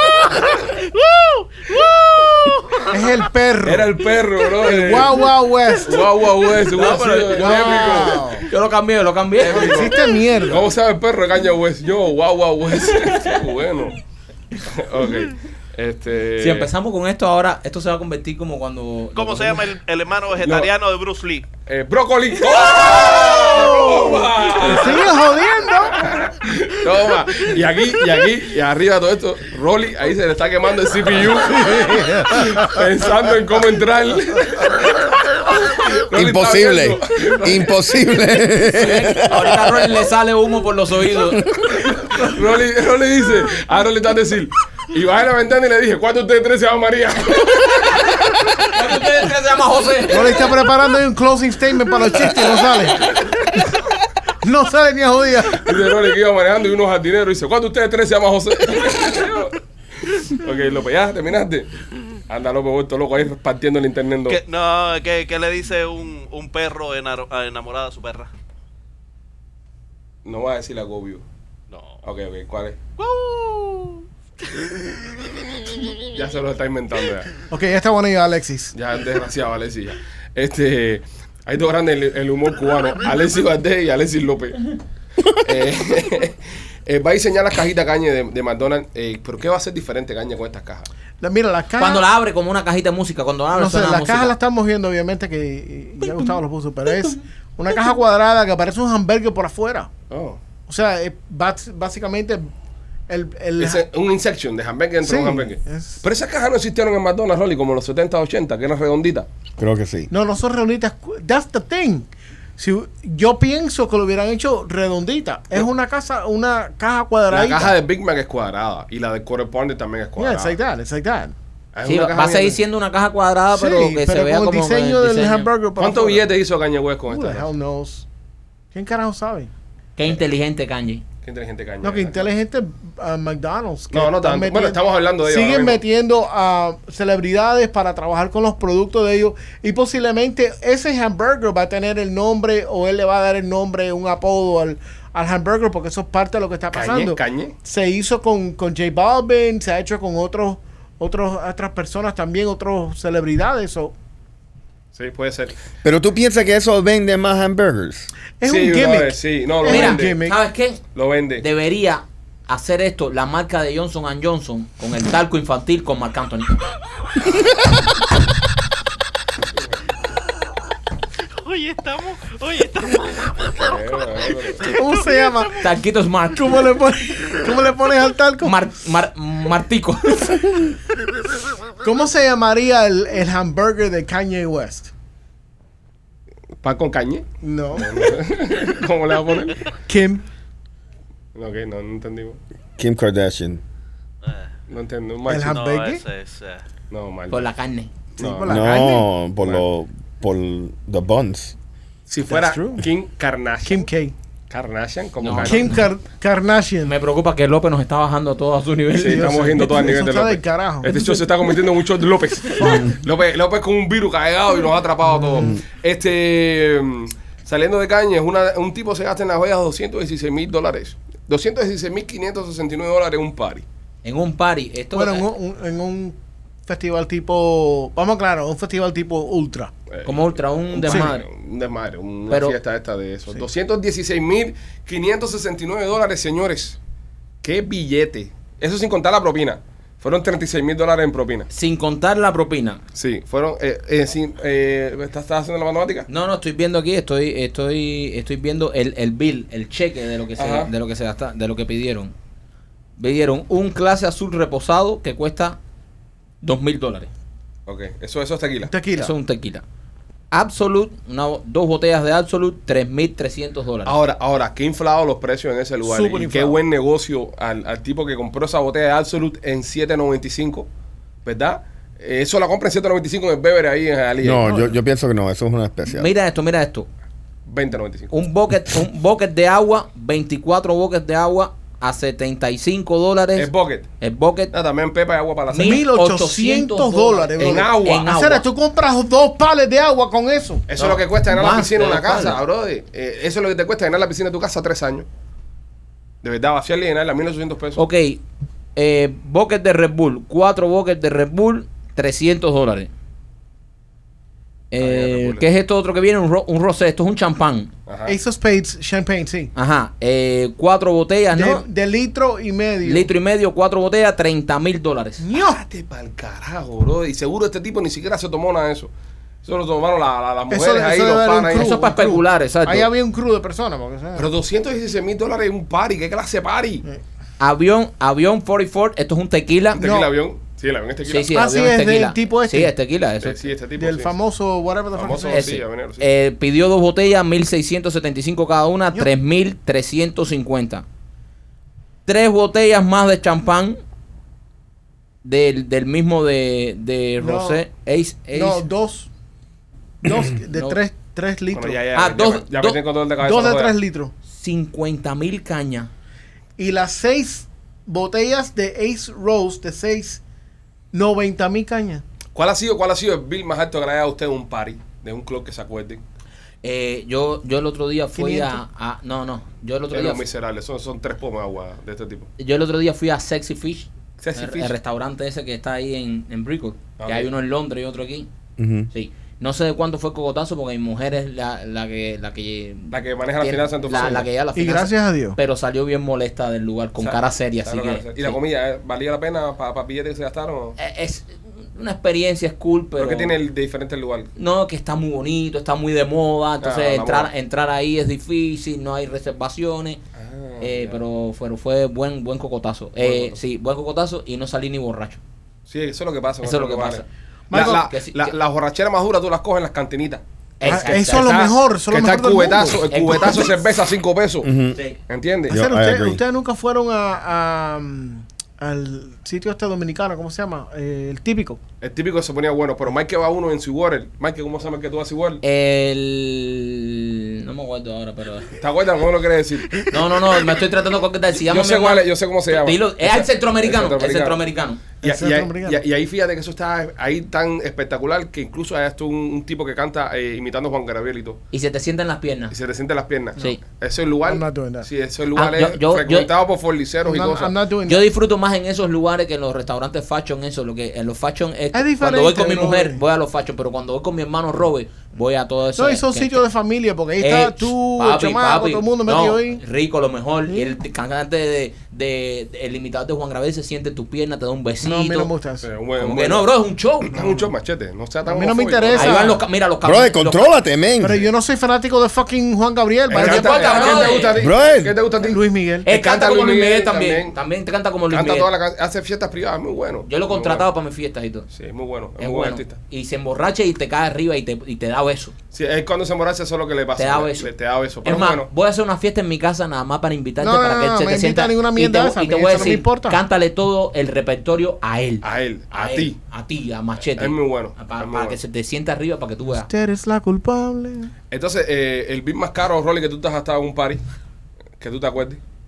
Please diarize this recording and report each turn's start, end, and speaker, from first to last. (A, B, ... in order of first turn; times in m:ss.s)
0:00.3-0:03.0 A
0:02.9-0:04.0 B
0:03.6-0:08.2 C
0:04.6-0:06.2 B
0:06.7-0:09.9 D
0:07.4-0:08.5 B
0:09.4-0:14.0 C
0:09.5-0:10.7 B
0:13.0-0:13.3 D
0:14.7-0:16.7 C
0:16.4-0:19.7 D
0:19.1-0:21.5 A
0:20.4-0:20.7 C
0:21.6-0:25.1 C
0:23.0-0:26.1 B
0:25.9-0:37.7 C
0:36.1-0:39.9 E
0:38.7-0:42.3 D
0:41.8-0:48.0 C
0:48.7-0:50.4 D
0:50.1-0:53.8 B
0:54.4-0:55.7 B
0:55.5-0:59.6 C
1:00.1-1:01.7 C
1:02.3-1:04.4 C
1:04.3-1:08.3 A
1:10.2-1:11.2 C
1:11.7-1:12.0 A
1:12.0-1:12.8 C
1:13.0-1:14.0 A
1:16.1-1:17.3 C
1:17.5-1:18.7 B
1:18.7-1:24.7 C
1:25.3-1:30.9 C
1:31.2-1:32.0 B
1:31.8-1:34.3 D
1:33.5-1:39.9 B
1:36.0-1:36.3 D
1:40.1-1:40.4 C
1:40.7-1:42.5 B
1:43.1-1:43.8 B
1:43.6-1:49.3 C
1:45.0-1:46.0 B
1:49.6-1:50.1 E
1:50.1-1:57.8 B
1:57.3-2:00.6 C
2:00.2-2:01.3 B
2:01.7-2:02.6 C
2:01.8-2:05.5 D
2:03.5-2:06.3 B
2:05.8-2:07.5 C
2:07.1-2:08.0 B
2:08.7-2:09.5 B
2:10.0-2:11.0 D
2:11.2-2:12.3 C
2:11.8-2:33.9 B
2:13.9-2:15.8 C
2:26.7-2:27.6 C
2:34.9-2:35.5 C
2:35.8-2:38.1 E
2:38.4-2:40.4 B
2:38.4-2:40.2 C
2:39.6-2:40.8 D
2:40.9-2:41.4 C
2:41.4-2:46.5 D
2:51.3-2:55.3 A
2:53.5-2:54.7 C
2:54.7-2:55.7 B
2:55.6-2:56.7 D
2:56.3-2:58.6 B
2:58.4-3:00.4 D
3:01.8-3:04.9 B
3:06.6-3:09.6 C
3:07.4-3:08.1 B
3:09.9-3:10.2 B
3:11.3-3:12.4 C
3:12.8-3:13.6 E
3:14.7-3:15.6 C
3:15.2-3:16.0 B
3:15.4-3:16.6 A
3:16.9-3:17.5 C
3:17.3-3:17.9 D
3:18.2-3:18.7 C
3:18.2-3:19.1 B
3:18.4-3:21.5 E
3:19.4-3:19.6 C
3:22.1-3:23.9 C
3:22.3-3:22.8 B
3:23.6-3:24.1 B
3:24.5-3:25.8 C
3:25.2-3:25.7 D
3:25.3-3:26.9 B
3:26.8-3:29.4 D
3:28.9-3:43.6 C
3:29.0-3:31.2 B
3:32.5-3:33.0 B
3:44.0-3:45.2 D
3:44.9-3:49.7 B
3:49.9-3:56.8 C
3:50.0-3:51.3 D
3:52.3-3:52.6 D
3:57.4-4:01.5 C
4:01.5-4:02.8 D
4:02.9-4:06.1 C
4:06.1-4:12.1 D
4:10.4-4:10.7 C
4:13.0-4:15.6 D
4:16.4-4:17.1 D
4:17.7-4:18.7 C
4:18.6-4:19.1 B
4:18.9-4:19.6 D
4:20.3-4:24.0 D
4:23.8-4:30.7 C
4:25.8-4:26.6 B
4:31.2-4:34.6 C
4:34.2-4:36.1 E
4:35.9-4:36.9 D
4:37.5-4:38.1 C
4:38.1-4:44.5 D
4:43.4-4:43.9 C
4:44.5-4:45.8 C
4:45.5-4:48.4 D
4:45.6-4:50.8 B
4:47.4-4:48.1 C
4:50.7-4:55.1 C
4:50.8-4:52.4 D
4:56.2-4:57.8 C
4:57.8-4:58.2 D
4:58.8-5:02.9 D
5:04.7-5:07.7 D
5:04.8-5:05.5 C
5:07.9-5:08.2 C
5:08.1-5:09.5 B
5:09.5-5:11.6 D
5:11.3-5:13.1 B
5:12.8-5:15.2 D
5:15.2-5:15.6 B
5:15.3-5:18.9 C
5:19.4-5:21.8 C
5:20.5-5:24.3 B
5:21.5-5:22.9 D
5:24.2-5:26.8 C
5:27.4-5:29.8 D
5:29.7-5:31.3 C
5:29.8-5:30.1 B
5:31.0-5:33.4 D
5:31.3-5:32.7 B
5:33.2-5:34.1 C
5:33.8-5:35.5 B
5:34.9-5:36.1 C
5:35.3-5:40.8 D
5:42.0-5:43.8 D
5:45.2-5:48.6 D
5:47.2-5:47.6 B
5:48.3-5:49.1 B
5:50.0-5:51.8 B
5:50.5-5:50.8 D
5:51.5-5:53.8 C
5:51.9-5:52.8 D
5:53.2-5:54.1 B
5:54.2-5:55.9 D
5:56.6-6:00.2 B
6:00.9-6:02.0 B
6:02.3-6:06.0 C
6:06.6-6:10.2 D
6:08.2-6:08.6 B
6:09.9-6:12.3 C
6:12.4-6:18.3 D
6:14.2-6:14.7 C
6:17.0-6:17.3 C
6:18.6-6:18.9 E
6:18.9-6:28.4 D
6:22.9-6:24.3 C
6:24.6-6:25.4 B
6:27.0-6:30.8 C
6:30.8-6:33.3 D
6:33.0-6:34.3 C
6:34.4-6:40.0 D
6:36.6-6:37.3 C
6:40.2-6:41.0 C
6:40.6-6:45.2 D
6:43.0-6:43.4 C
6:45.7-6:54.5 C
6:46.4-6:48.3 D
6:47.5-6:47.8 B
6:50.6-6:51.5 D
6:50.6-6:52.8 B
6:52.9-6:53.6 D
6:54.4-6:54.8 E
6:55.1-6:55.6 C
6:55.5-6:56.2 E
6:55.5-7:01.6 B
7:01.8-7:05.4 C
7:05.4-7:08.5 D
7:08.6-7:09.8 C
7:09.8-7:14.8 D
7:11.3-7:14.4 C
7:15.0-7:15.8 B
7:15.0-7:21.4 C
7:21.5-7:22.5 D
7:22.5-7:27.5 C
7:24.2-7:24.9 B
7:25.3-7:26.3 D
7:27.0-7:28.0 B
7:27.8-7:36.4 D
7:31.7-7:33.0 B
7:35.8-7:39.6 B
7:37.2-7:45.3 D
7:40.5-7:40.8 B
7:44.8-7:45.7 B
7:45.6-7:46.5 C
7:46.0-7:47.3 D
7:47.1-7:49.2 C
7:48.2-7:49.4 B
7:48.9-7:50.5 D
7:49.8-7:51.2 E
7:51.0-7:54.2 B
7:53.1-7:57.4 C
7:53.1-7:54.4 D
7:54.3-7:54.9 E
7:55.2-7:55.9 B
7:55.8-7:58.5 D
7:58.1-8:00.7 C
8:00.1-8:01.5 D
8:01.5-8:02.8 C
8:02.2-8:05.3 D
8:05.5-8:08.5 C
8:07.0-8:07.5 D
8:08.0-8:19.7 D
8:10.4-8:13.2 B
8:15.2-8:16.2 C
8:17.2-8:18.4 C
8:19.5-8:21.1 B
8:21.3-8:24.0 C
8:24.8-8:25.4 C